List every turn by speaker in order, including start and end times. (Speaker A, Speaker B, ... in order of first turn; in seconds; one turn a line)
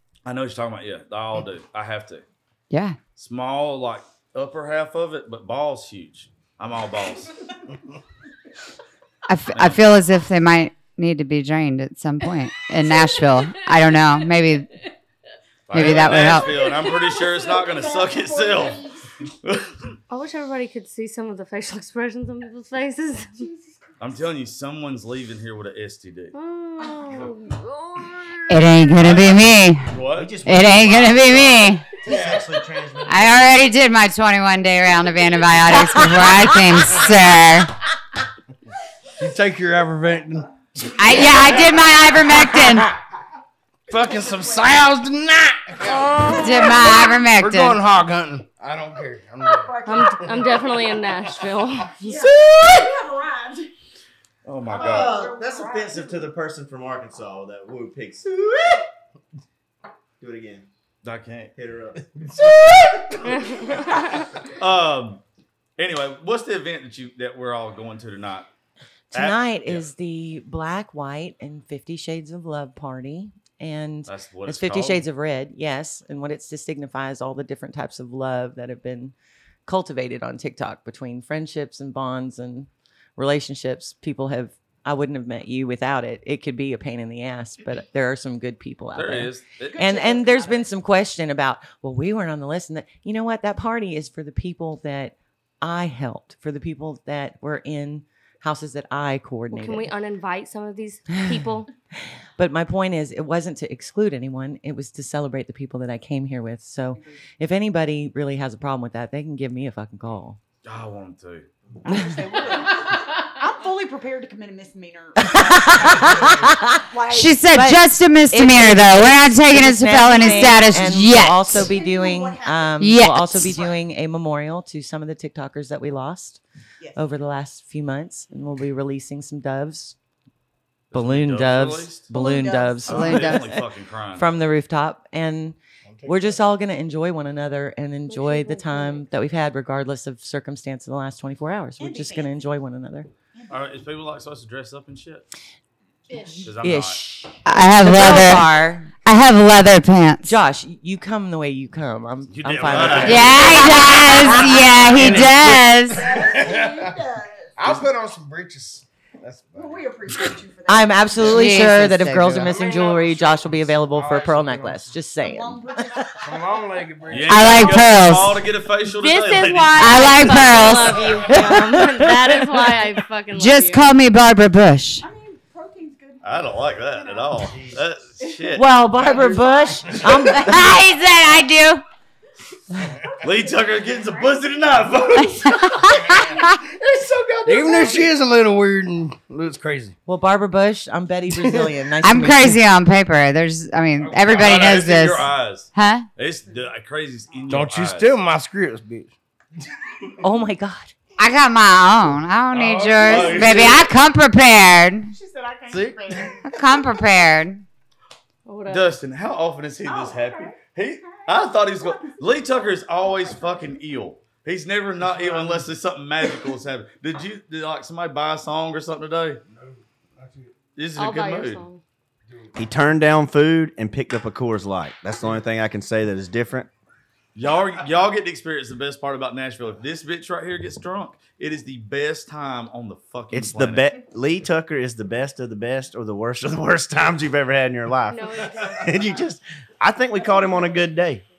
Speaker A: 0.2-2.2
Speaker B: 2.7-3.0
Speaker A: 3.2-7.4
Speaker B: 9.3-14.7
Speaker A: 9.5-9.9
Speaker C: 12.8-14.2
Speaker A: 15.7-18.9
Speaker B: 15.7-16.7
Speaker C: 16.2-18.7
Speaker D: 17.2-19.0
Speaker A: 19.4-19.9
Speaker E: 20.1-23.4
Speaker D: 23.3-23.9
Speaker A: 24.0-26.3
Speaker E: 26.3-28.3
Speaker D: 26.8-27.2
Speaker B: 28.5-29.9
Speaker A: 28.8-30.3
Speaker F: 30.1-33.7
Speaker B: 30.4-32.0
Speaker G: 32.0-32.6
Speaker B: 33.1-37.8
Speaker H: 35.9-36.6
Speaker G: 39.2-42.9
Speaker B: 41.0-42.9
Speaker G: 43.9-50.5
Speaker D: 43.9-44.8
Speaker D: 45.8-47.2
Speaker B: 46.2-47.8
Speaker D: 49.4-51.0
Speaker E: 49.9-52.3
Speaker D: 52.0-53.7
Speaker G: 52.1-53.0
Speaker A: 54.5-55.2
Speaker D: 54.7-56.3
Speaker F: 54.7-58.9
Speaker F: 60.2-60.7
Speaker A: 61.0-61.5
Speaker F: 61.5-62.2
Speaker G: 62.2-64.0
Speaker E: 63.2-64.3
Speaker A: 64.5-65.2
Speaker A: 65.8-68.5
Speaker A: 69.1-69.9
Speaker H: 69.1-79.1
Speaker A: 74.1-75.1
Speaker H: 79.7-99.9
Speaker A: 89.0-89.8
Speaker D: 89.7-90.7
Speaker E: 99.5-101.7
Speaker H: 101.1-110.4
Speaker D: 106.9-107.2
Speaker A: 110.6-111.5
Speaker D: 111.8-117.5
Speaker H: 111.9-112.3
Speaker H: 115.2-116.8
Speaker B: 117.1-121.7
Speaker H: 117.5-126.4
Speaker D: 120.1-120.8
Speaker D: 121.5-123.8
Speaker B: 122.8-123.5
Speaker H: 126.9-130.0
Speaker A: 130.9-132.1
Speaker H: 130.9-133.6
Speaker D: 132.1-133.2
Speaker A: 132.8-134.4
Speaker B: 132.9-133.5
Speaker H: 134.1-143.1
Speaker G: 135.9-136.4
Speaker E: 138.1-139.0
Speaker D: 141.8-142.3
Speaker D: 143.3-143.8
Speaker A: 143.5-145.2
Speaker C: 146.1-146.6
Speaker A: 146.4-147.0
Speaker H: 146.6-148.9
Speaker B: 147.4-150.4
Speaker H: 150.2-155.7
Speaker A: 152.3-154.1
Speaker G: 152.7-153.5
Speaker F: 152.8-153.1
Speaker B: 153.0-156.1
Speaker G: 155.0-156.9
Speaker D: 155.8-157.7
Speaker G: 157.6-160.4
Speaker D: 159.5-161.7
Speaker H: 160.7-166.3
Speaker B: 161.2-162.6
Speaker D: 162.6-163.0
Speaker G: 162.6-164.9
Speaker D: 165.2-166.8
Speaker G: 166.2-167.8
Speaker A: 167.1-170.7
Speaker B: 167.3-168.4
Speaker E: 169.0-173.9
Speaker B: 169.8-171.1
Speaker H: 171.2-172.8
Speaker B: 173.3-175.0
Speaker D: 175.0-178.5
Speaker A: 176.2-178.7
Speaker F: 177.4-177.8
Speaker H: 178.5-180.9
Speaker D: 179.2-180.0
Speaker G: 179.9-180.2
Speaker B: 180.3-181.8
Speaker D: 182.9-185.0
Speaker A: 183.2-188.1
Speaker B: 185.3-186.6
Speaker G: 187.4-190.0
Speaker H: 190.1-192.6
Speaker G: 191.3-191.7
Speaker B: 192.0-196.1
Speaker A: 194.0-198.2
Speaker G: 197.5-199.1
Speaker H: 200.2-200.9
Speaker B: 201.2-205.1
Speaker G: 202.5-203.8
Speaker A: 202.6-203.9
Speaker D: 205.1-206.6
Speaker G: 205.7-206.6
Speaker B: 206.5-207.7
Speaker E: 208.5-208.9
Speaker A: 208.7-219.4
Speaker D: 209.8-213.8
Speaker G: 215.0-215.7
Speaker G: 219.5-220.5
Speaker A: 220.8-221.6
Speaker E: 221.0-221.8
Speaker G: 222.3-222.5
Speaker F: 222.6-226.7
Speaker A: 227.3-233.9
Speaker F: 233.3-241.2
Speaker E: 238.1-238.9